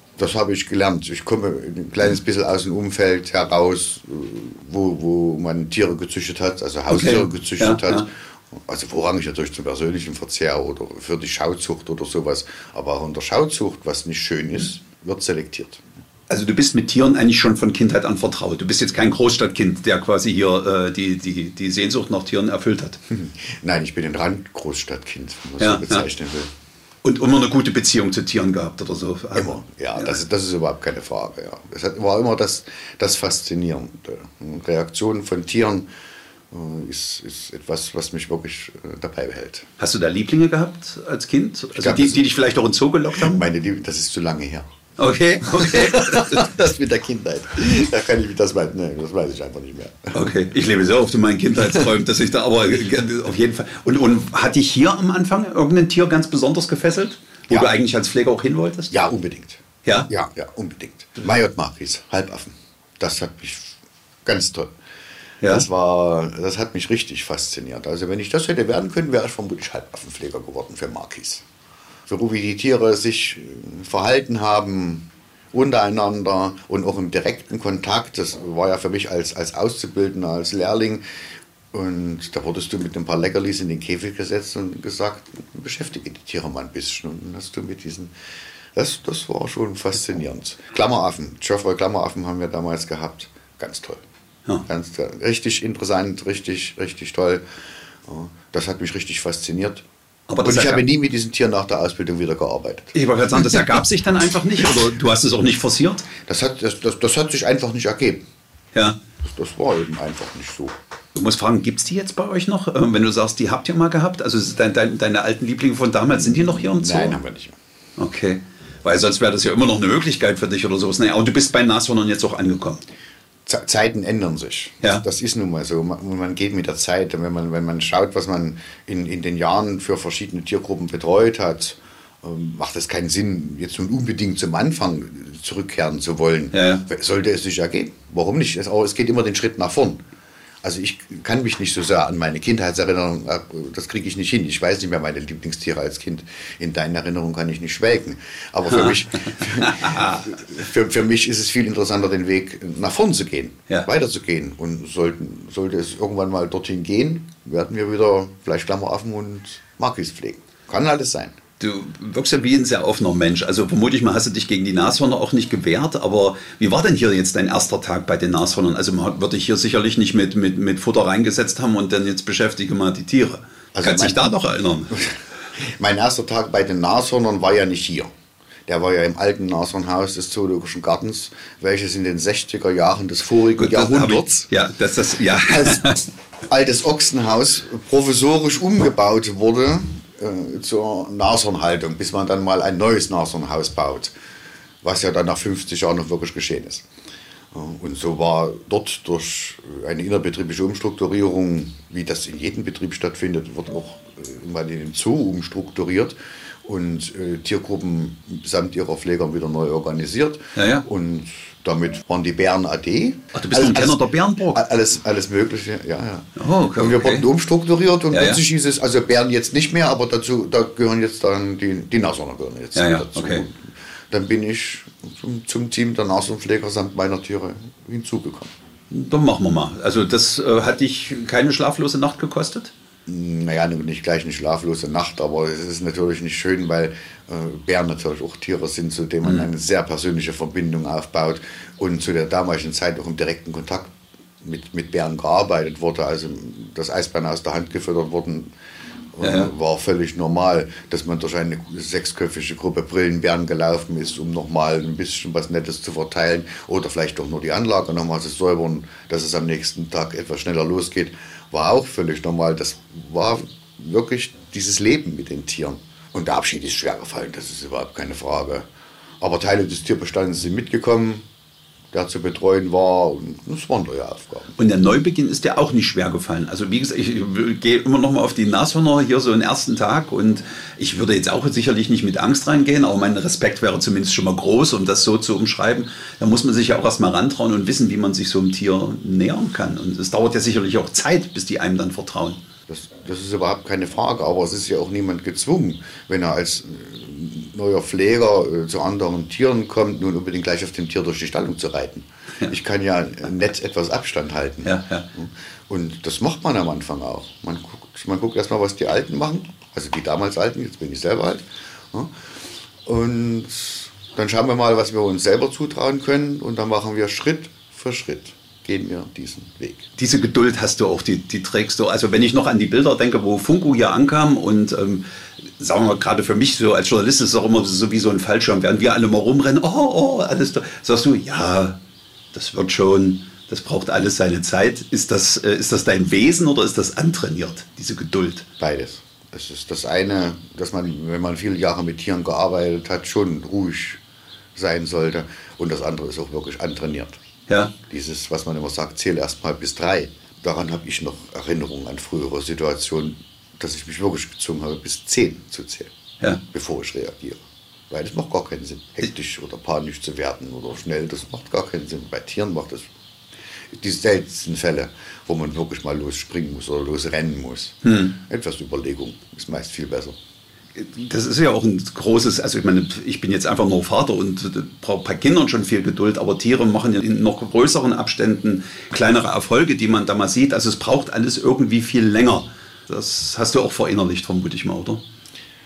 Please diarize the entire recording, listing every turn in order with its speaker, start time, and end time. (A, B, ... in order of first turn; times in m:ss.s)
0:00.2-0:15.8 A
0:06.9-0:08.1 B
0:16.3-0:23.0 B
0:23.1-0:26.5 A
0:25.6-0:26.1 B
0:27.0-0:30.2 B
0:29.3-0:35.9 A
0:36.5-0:39.7 A
0:39.8-0:43.5 B
0:41.8-0:42.2 A
0:43.2-0:44.7 A
0:45.0-0:46.5 B
0:45.5-0:50.3 A
0:50.1-0:58.9 B
0:58.9-1:04.7 A
1:05.4-1:11.4 A
1:12.1-1:21.0 A
1:21.7-1:28.1 A
1:28.7-1:34.0 A
1:34.7-1:37.4 A
1:38.0-1:39.8 A
1:40.3-1:40.8 B
1:40.4-1:43.7 A
1:42.9-1:46.1 B
1:46.2-1:48.2 A
1:49.2-1:50.8 A
1:51.2-1:57.2 B
1:56.5-1:57.6 A
1:58.0-2:02.8 B
2:03.5-2:20.0 A
2:16.5-2:16.8 B
2:20.6-2:41.4 A
2:28.7-2:30.2 B
2:41.6-2:55.1 B
2:53.7-2:54.2 A
2:54.9-2:58.1 A
2:58.7-3:04.5 A
3:03.6-3:06.0 B
3:05.3-3:14.1 A
3:14.8-3:16.9 A
3:17.5-3:48.5 A
3:30.6-3:30.9 B
3:33.3-3:34.6 B
3:36.4-3:37.3 B
3:38.1-3:38.4 B
3:42.8-3:43.4 B
3:48.9-3:52.7 B
3:53.1-4:08.5 A
4:09.1-4:28.7 A
4:09.2-4:09.5 B
4:29.2-4:31.3 A
4:31.9-4:34.5 A
4:34.6-4:52.4 B
4:52.7-5:12.1 A
5:04.6-5:05.1 B
5:12.8-5:19.9 A
5:20.0-5:25.0 B
5:25.6-5:31.8 B
5:32.3-5:38.5 B
5:38.6-5:44.0 A
5:44.6-5:47.2 A
5:47.5-5:47.7 B
5:47.9-5:55.9 A
5:56.5-6:02.9 A
6:03.7-6:10.2 A
6:07.8-6:08.2 B
6:10.8-6:25.0 B